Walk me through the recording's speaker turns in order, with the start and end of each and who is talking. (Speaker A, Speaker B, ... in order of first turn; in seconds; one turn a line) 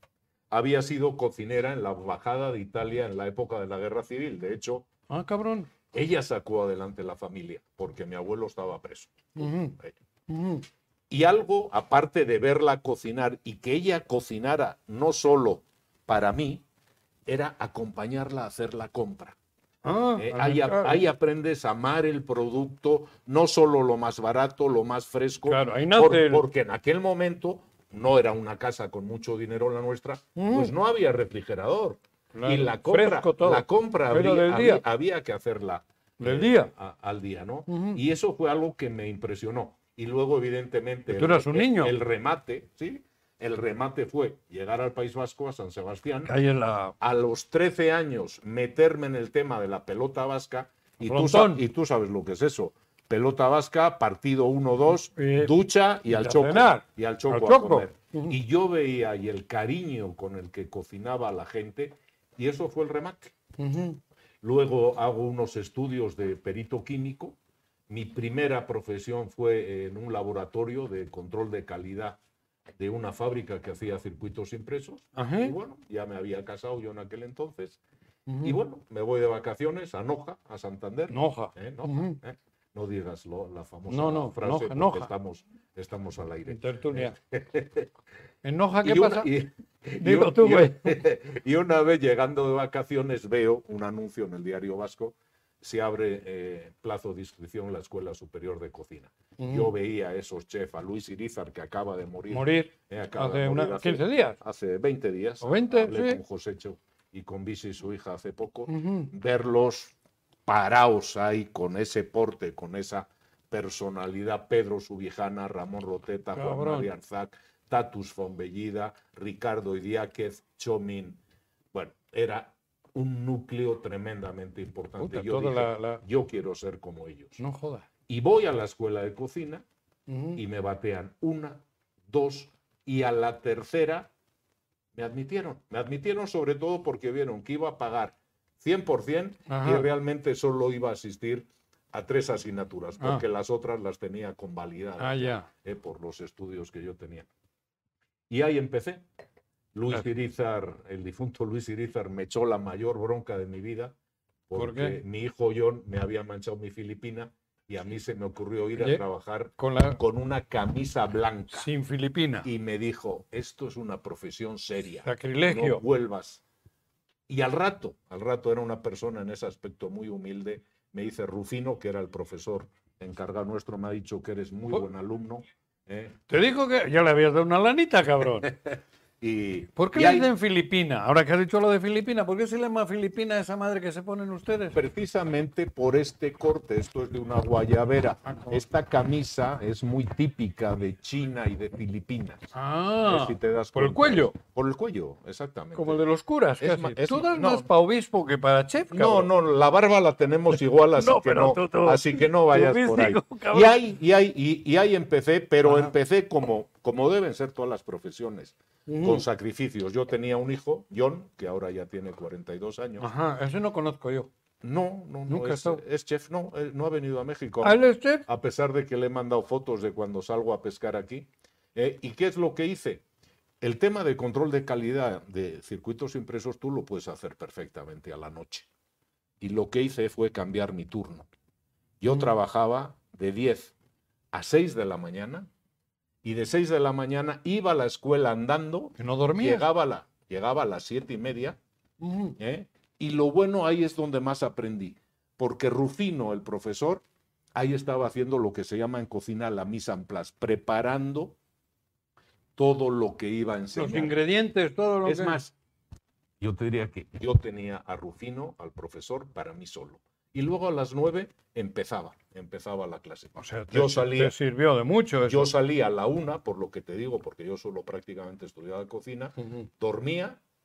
Speaker A: 0.5-4.9
Speaker B: 5.1-5.7
Speaker A: 5.9-9.9
Speaker B: 9.3-10.7
Speaker A: 11.1-16.6
Speaker A: 17.2-19.4
Speaker B: 19.8-21.0
Speaker A: 20.2-46.3
Speaker B: 25.5-26.4
Speaker B: 30.3-30.7
Speaker B: 32.3-34.8
Speaker B: 36.2-36.7
Speaker B: 37.7-38.0
Speaker B: 41.1-41.9
Speaker B: 46.2-46.9
Speaker A: 47.0-63.3
Speaker B: 51.0-51.6
Speaker B: 55.1-55.5
Speaker B: 56.0-58.4
Speaker B: 63.6-64.0
Speaker A: 64.4-67.4
Speaker A: 67.9-72.2
Speaker A: 72.8-77.8
Speaker B: 75.1-75.5
Speaker B: 78.3-78.6
Speaker A: 78.4-87.9
Speaker B: 81.1-82.2
Speaker B: 83.9-85.1
Speaker B: 86.5-87.1
Speaker B: 88.4-89.3
Speaker A: 88.8-109.9
Speaker B: 90.0-91.0
Speaker B: 99.4-99.7
Speaker B: 102.3-104.4
Speaker B: 105.4-106.2
Speaker B: 108.7-109.1
Speaker A: 110.5-121.2
Speaker B: 116.3-116.9
Speaker A: 121.7-127.4
Speaker B: 125.0-126.0
Speaker B: 127.4-127.9
Speaker A: 128.1-129.6
Speaker B: 130.1-130.4
Speaker A: 130.3-134.1
Speaker A: 134.9-147.3
Speaker B: 139.5-139.9
Speaker B: 145.0-145.5
Speaker A: 148.3-149.0
Speaker A: 149.7-153.9
Speaker A: 154.5-161.7
Speaker B: 154.5-155.0
Speaker B: 158.8-159.0
Speaker B: 159.6-160.0
Speaker B: 161.5-162.5
Speaker A: 162.4-166.4
Speaker B: 165.0-165.8
Speaker A: 167.3-176.1
Speaker B: 176.3-178.5
Speaker A: 178.4-180.3
Speaker B: 179.8-184.8
Speaker A: 184.7-192.5
Speaker B: 188.2-188.6
Speaker B: 192.5-194.3
Speaker A: 193.0-196.0
Speaker B: 195.7-199.3
Speaker A: 196.6-197.7
Speaker A: 198.9-213.1
Speaker B: 200.9-203.8
Speaker B: 205.6-205.9
Speaker B: 208.9-209.2
Speaker B: 213.0-214.3
Speaker A: 214.6-223.0
Speaker B: 215.3-215.8
Speaker B: 217.6-218.2
Speaker A: 223.6-228.7
Speaker A: 229.4-231.3
Speaker A: 232.0-233.7
Speaker A: 234.3-235.5
Speaker A: 236.2-241.6
Speaker B: 239.0-239.7
Speaker B: 242.0-242.4
Speaker A: 242.4-247.0
Speaker A: 247.5-251.4
Speaker A: 252.6-254.2
Speaker B: 253.8-255.4
Speaker A: 255.0-255.5
Speaker A: 256.4-264.4
Speaker B: 263.4-265.5
Speaker A: 265.2-270.4